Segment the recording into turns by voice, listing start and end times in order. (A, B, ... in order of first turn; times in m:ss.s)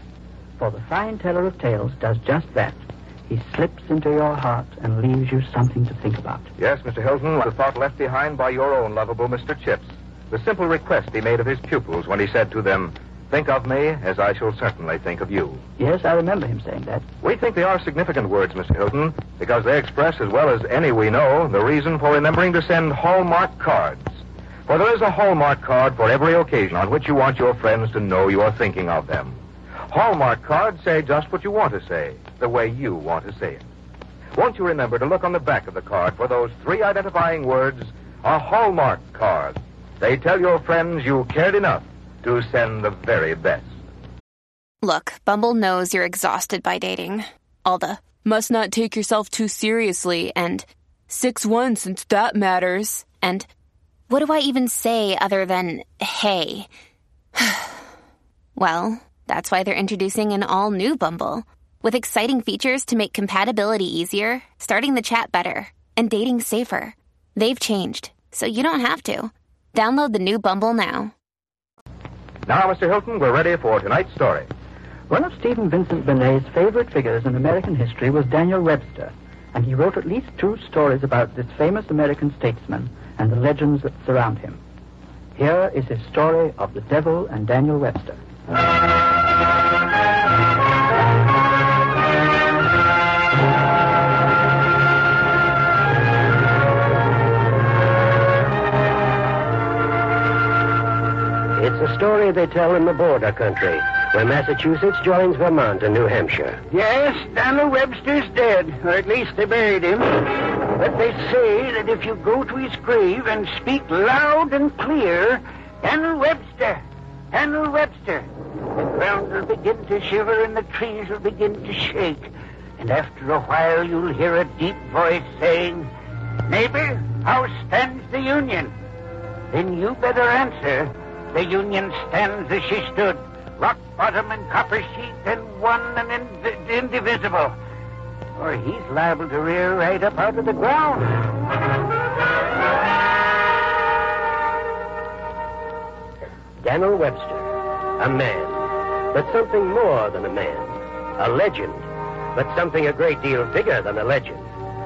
0:00.6-0:06.5 A
0:06.6-0:15.6 B
0:15.8-0:17.0 A
0:17.2-0:33.6 B
0:34.4-0:43.7 B
0:44.8-0:53.5 C
0:54.1-0:56.7 C
0:57.4-0:57.8 C
0:58.6-1:11.1 C
1:12.5-1:14.5 B
1:15.1-1:24.6 A
1:25.4-1:28.2 A
1:41.6-1:46.6 D
1:46.7-1:58.3 E
1:58.9-2:05.9 E
2:06.5-2:08.7 E
2:09.5-2:17.6 E
2:18.4-2:21.2 E
2:26.6-2:34.5 D